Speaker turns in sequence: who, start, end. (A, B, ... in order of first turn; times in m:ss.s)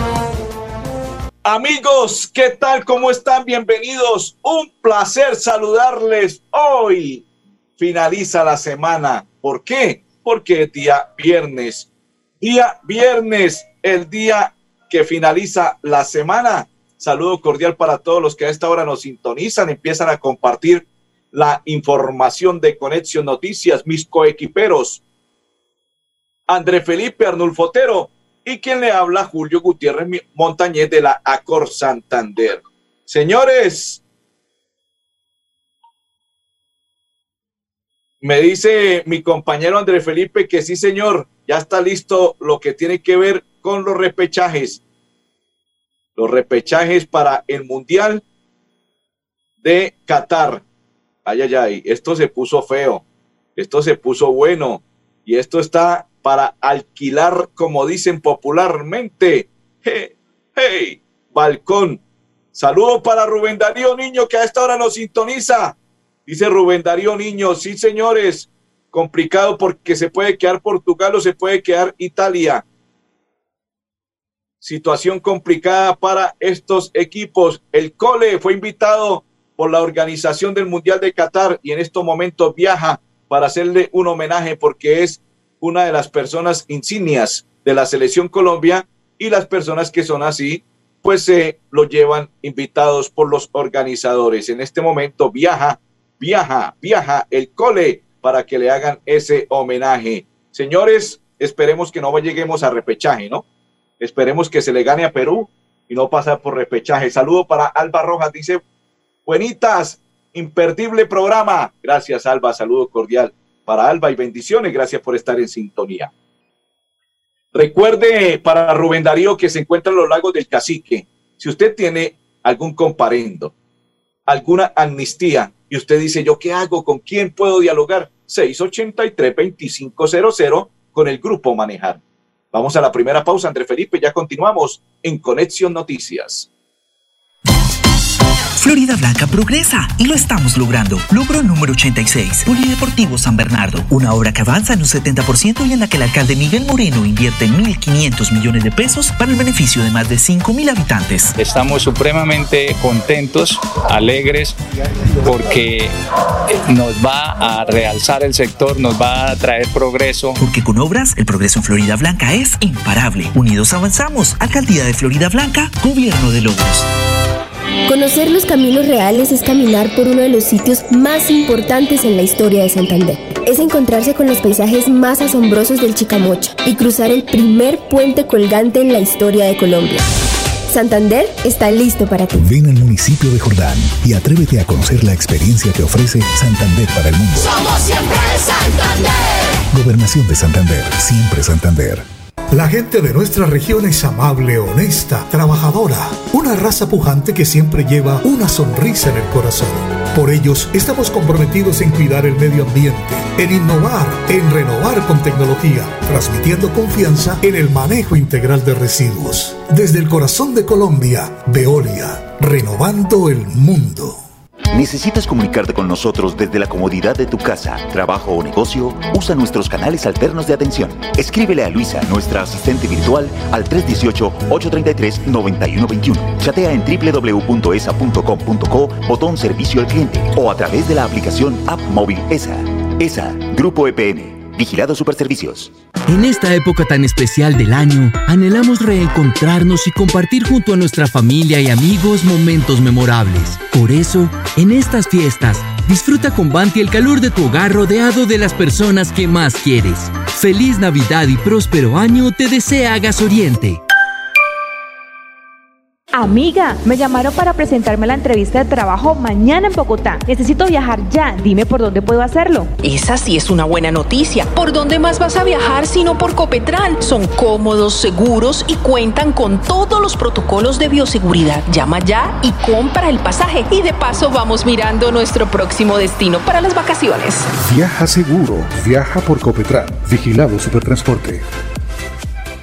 0:01.4-0:07.2 A
0:07.8-0:11.9 A
0:12.4-0:25.0 A
0:26.5-0:34.0 A
0:38.2-0:44.8 A
0:46.2-0:48.2 A
0:49.6-0:50.6 A
0:51.2-0:53.0 A
0:53.6-1:02.0 A
1:02.5-1:12.6 A
1:14.6-1:43.4 A
1:44.0-1:48.6 A
1:49.2-1:56.1 A
1:57.5-2:03.5 A
2:04.3-2:12.0 A
2:12.5-2:16.5 A
2:18.6-2:31.3 B
2:31.4-2:34.6 C
2:35.2-2:35.9 C
2:36.6-2:40.4 C
2:40.4-2:46.8 B
2:47.9-3:00.0 D
3:00.7-3:02.3 D
3:02.3-3:07.6 E
3:09.7-3:12.0 E
3:12.5-3:34.2 F
3:34.7-3:55.7 G
3:56.1-4:13.8 H
4:16.1-4:22.7 I
4:22.8-4:37.5 J
4:37.6-4:41.4 E